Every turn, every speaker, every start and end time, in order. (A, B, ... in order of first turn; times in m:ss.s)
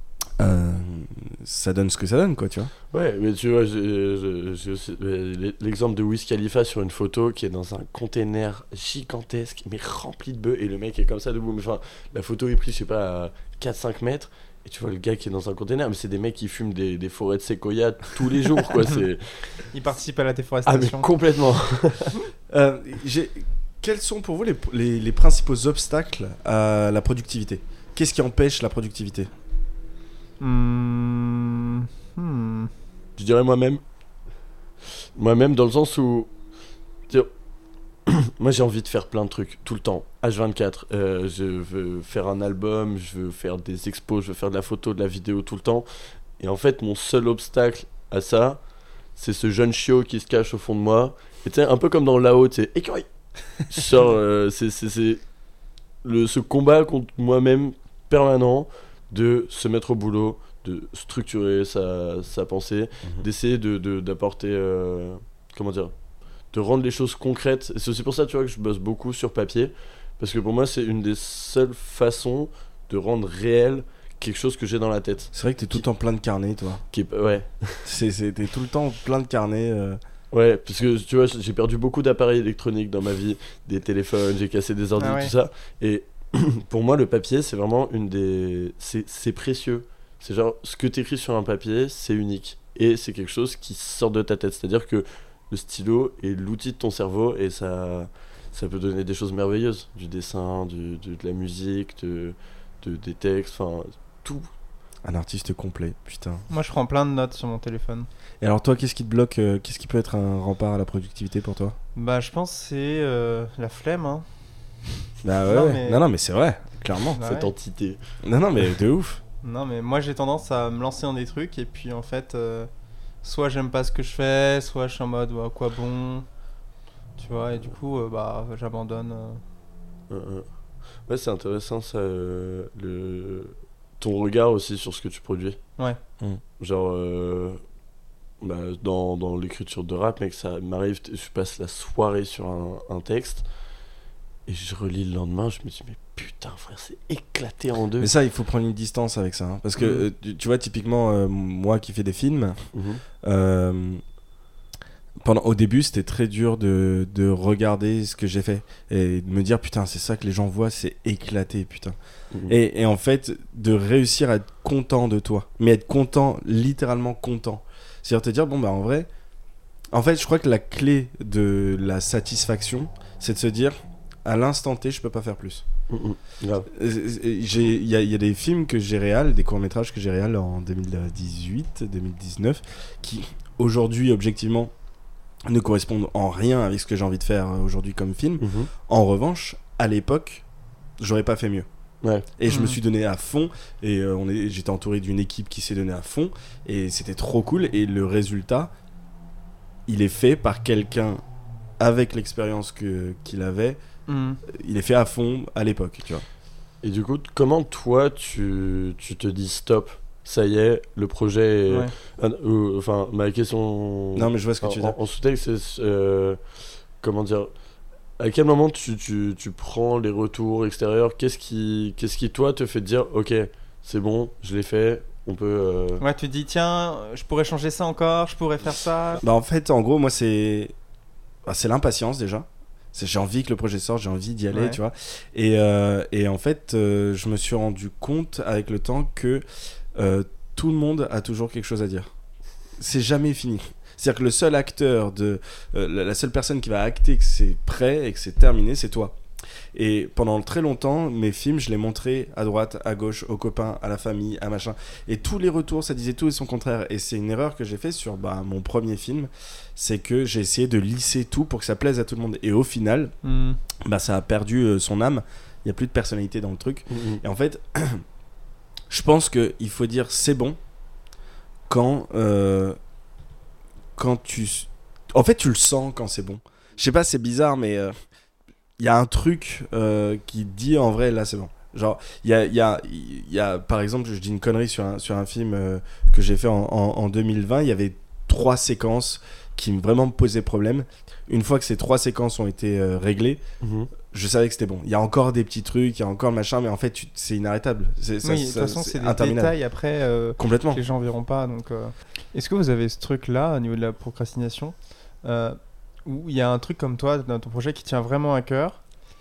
0:00.4-0:02.7 A
0:02.9-0:19.7 B
0:19.7-0:21.1 C
0:20.7-0:22.1 B
0:22.5-0:29.3 A
0:30.4-0:32.7 C
0:33.2-0:33.8 B
0:35.2-0:36.4 B
0:38.1-0:55.2 B
0:56.0-1:05.9 B
1:06.5-1:15.8 B
1:15.3-1:16.8 A
1:16.9-1:17.9 B
1:17.8-1:20.0 A
1:20.3-1:44.5 B
1:25.0-1:25.3 C
1:45.0-1:46.5 A
1:46.5-1:48.1 C
1:48.4-1:51.8 A
1:52.0-1:54.2 C
1:55.2-1:57.2 A
1:55.5-1:56.0 C
1:57.2-1:57.5 C
1:57.2-1:58.0 B
1:58.2-1:59.2 A
1:59.4-2:02.7 C
2:03.2-2:06.2 C
2:07.2-2:09.4 C
2:10.1-2:15.6 B
2:16.6-2:17.6 B
2:18.4-2:23.5 B
2:24.5-2:28.1 B
2:28.0-2:32.6 A
2:32.7-2:33.0 B
2:33.2-2:34.0 A
2:35.2-2:49.1 A
2:42.3-2:42.6 B
2:49.9-2:55.6 A
2:55.9-2:56.7 B
2:56.7-3:04.7 A
3:05.5-3:10.5 A
3:08.4-3:08.7 B
3:11.0-3:11.7 A
3:12.4-3:18.7 A
3:12.5-3:12.8 C
3:19.9-3:21.2 A
3:21.8-3:23.8 A
3:24.1-3:24.4 C
3:24.5-3:26.2 A
3:26.8-3:36.4 B
3:34.2-3:35.0 A
3:37.0-3:37.5 B
3:38.2-3:46.0 B
3:46.0-3:49.2 C
3:49.2-3:50.7 A
3:51.5-3:59.4 A
3:54.5-3:54.8 C
4:00.0-4:02.1 A
4:02.8-4:09.2 A
4:09.7-4:23.1 A
4:23.2-4:23.6 C
4:23.9-4:28.0 A
4:26.9-4:27.2 B
4:28.9-4:30.6 A
4:31.7-4:32.8 A
4:34.0-4:37.9 A
4:38.8-4:53.4 A
4:53.6-4:53.9 B
4:54.0-4:59.6 A
4:58.2-5:08.8 C
5:00.4-5:00.8 A